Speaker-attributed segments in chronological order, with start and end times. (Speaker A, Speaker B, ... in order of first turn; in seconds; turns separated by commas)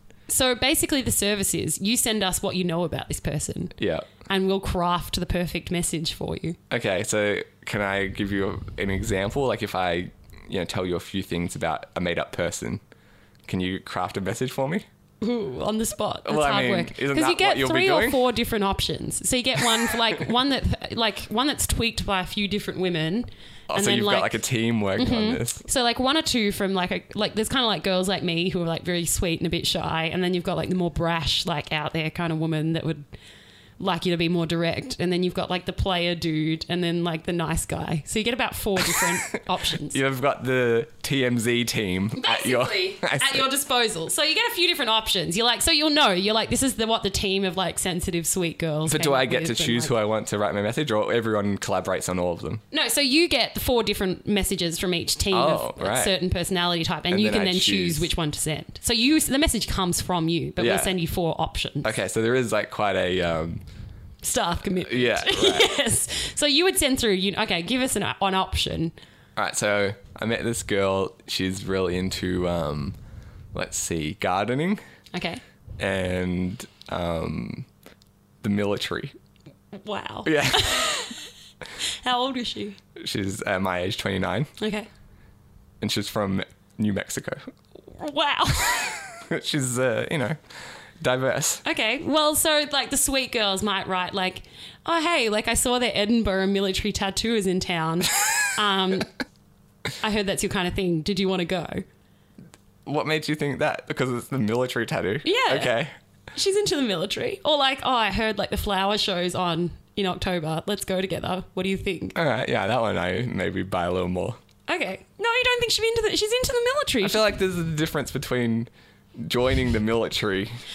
Speaker A: 0.3-3.7, Speaker B: 3.8-4.1, Speaker A: 4.2-6.6, Speaker B: 6.7-12.8, Speaker B: 13.4-14.9, Speaker A: 15.2-24.4, Speaker B: 16.2-18.2, Speaker B: 23.7-25.6, Speaker A: 24.9-33.0, Speaker A: 33.8-40.0, Speaker B: 39.8-43.5, Speaker A: 42.2-49.9, Speaker B: 48.9-52.6, Speaker A: 52.7-61.9, Speaker B: 55.3-56.1, Speaker B: 57.1-58.1, Speaker B: 60.6-60.9, Speaker B: 61.8-63.6, Speaker A: 64.2-68.9, Speaker B: 64.9-65.7, Speaker B: 69.4-73.0, Speaker B: 73.5-74.8, Speaker A: 75.1-75.4, Speaker B: 75.8-77.7, Speaker B: 78.4-79.1, Speaker A: 79.7-81.2, Speaker B: 80.2-81.0, Speaker A: 81.8-82.8, Speaker B: 83.0-84.5, Speaker A: 84.6-84.9, Speaker B: 85.8-87.5, Speaker A: 87.9-89.0, Speaker B: 89.3-90.4, Speaker B: 91.0-91.6, Speaker A: 91.6-99.1, Speaker A: 100.0-101.8, Speaker B: 102.9-105.9, Speaker A: 105.2-105.7, Speaker A: 106.3-112.2, Speaker B: 112.1-114.4, Speaker A: 114.7-117.3, Speaker B: 117.0-120.6